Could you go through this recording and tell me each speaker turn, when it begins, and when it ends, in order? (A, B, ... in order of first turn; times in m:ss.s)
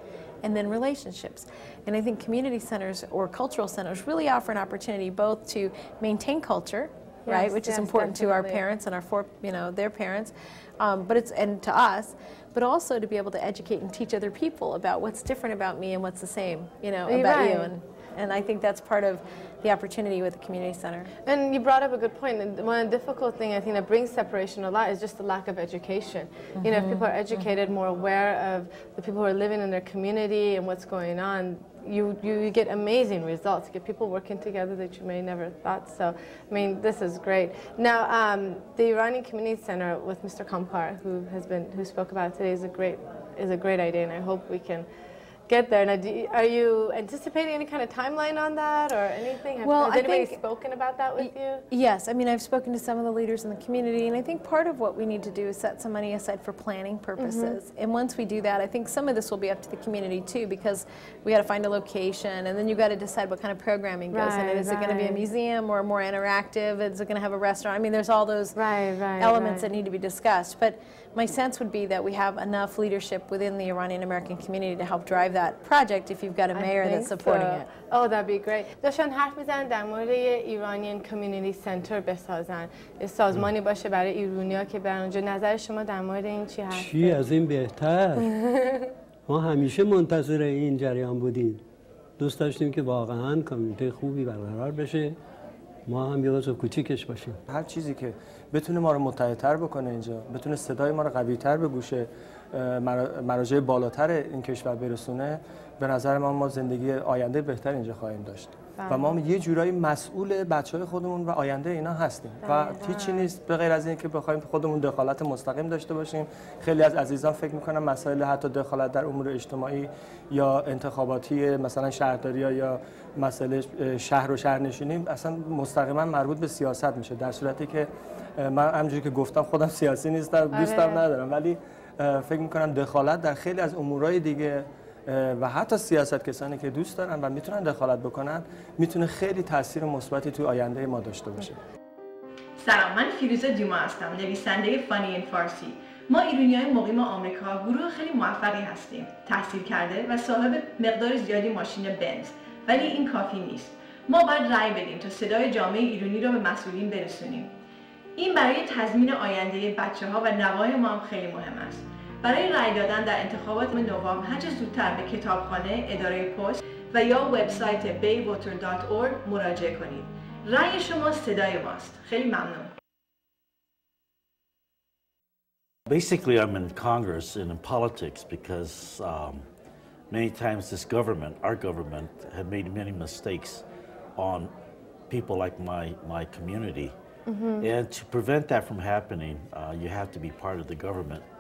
0:00.4-0:21.1 A
0:07.3-0:08.6 B
0:17.1-0:17.7 B
0:21.2-0:44.9 B
0:26.6-0:27.5 A
0:45.5-0:51.6 B
0:49.6-0:50.4 A
0:51.2-1:08.6 A
0:57.2-0:57.6 B
1:04.1-1:05.2 B
1:08.6-1:09.7 B
1:09.2-1:17.7 A
1:16.5-1:27.2 B
1:26.7-1:28.3 C
1:28.2-1:28.9 B
1:29.3-1:31.6 C
1:32.2-1:35.2 C
1:35.9-1:37.4 C
1:37.5-2:21.6 D
1:48.8-1:49.2 B
1:52.4-1:53.3 B
2:10.5-2:11.0 B
2:22.6-2:37.5 E
2:38.2-2:52.7 E
2:55.9-2:59.4 F
3:00.1-3:03.6 F
3:04.2-3:04.5 F
3:05.1-3:06.9 F
3:07.3-3:07.7 B
3:07.6-3:11.2 F